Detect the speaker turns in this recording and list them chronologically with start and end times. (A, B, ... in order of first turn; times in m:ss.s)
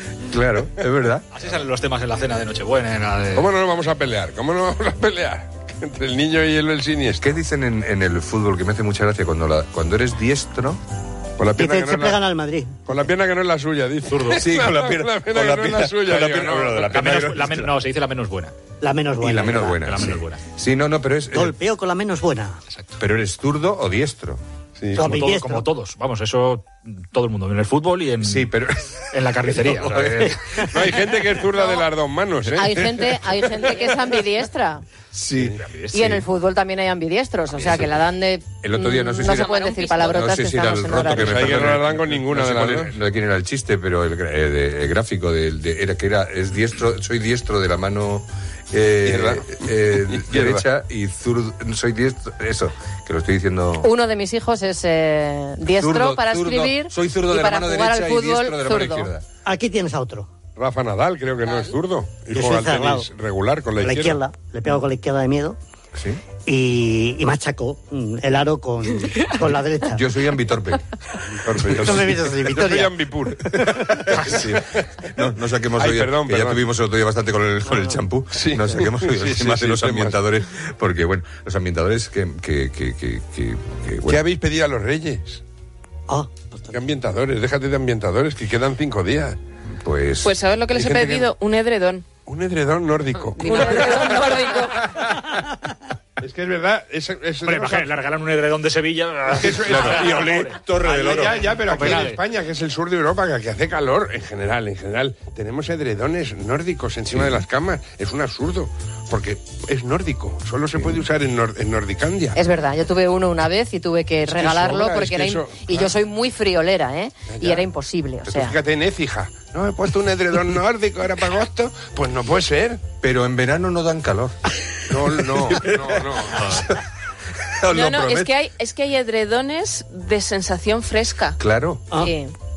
0:00.3-0:01.2 A
0:01.3-0:03.5 B
0:03.3-0:07.3 C
0:07.2-0:10.8 A
0:11.4-0:12.2 C
0:11.6-0:12.8 D
0:12.8-0:16.9 C
0:14.1-0:14.4 B
0:14.3-0:17.7 A
0:16.8-0:18.5 B
0:18.8-0:20.0 D
0:19.2-0:21.6 A
0:19.8-0:20.4 B
0:21.3-0:22.6 D
0:22.7-0:23.0 B
0:23.0-0:24.4 A
0:24.8-0:25.3 C
0:25.0-0:28.5 B
0:25.0-0:25.7 D
0:28.2-0:30.4 A
0:29.1-0:30.7 B
0:30.7-0:33.0 C
0:32.6-0:34.8 E
0:35.1-0:36.2 A
0:35.6-0:36.2 B
0:35.9-0:41.6 E
0:38.6-0:53.9 A
0:39.2-0:40.3 F
0:41.0-0:42.9 C
0:49.0-0:50.6 C
0:53.8-0:59.1 E
0:55.6-0:59.2 A
0:59.4-1:00.3 D
1:00.6-1:04.2 C
1:02.3-1:03.1 D
1:03.8-1:05.6 D
1:05.9-1:06.2 A
1:06.4-1:10.0 D
1:09.9-1:10.9 A
1:11.3-1:14.6 C
1:11.5-1:12.2 A
1:11.7-1:12.9 D
1:13.5-1:24.2 A
1:15.7-1:16.6 C
1:18.3-1:20.2 C
1:24.0-1:25.4 C
1:26.1-1:26.8 D
1:26.7-1:29.4 C
1:29.8-1:30.3 A
1:30.2-1:32.0 F
1:30.7-1:31.3 C
1:32.2-1:34.4 C
1:33.4-1:34.9 F
1:36.2-1:38.0 C
1:37.4-1:42.2 B
1:39.3-1:52.4 C
1:39.6-1:41.4 A
1:47.1-1:47.4 A
1:52.3-1:58.6 E
1:54.2-1:55.9 C
1:57.3-1:57.6 C
1:58.2-2:02.8 C
2:03.0-2:04.4 A
2:04.9-2:06.5 C
2:04.9-2:06.8 A
2:07.6-2:08.3 A
2:07.7-2:11.4 F
2:11.4-2:11.8 A
2:12.0-2:12.3 E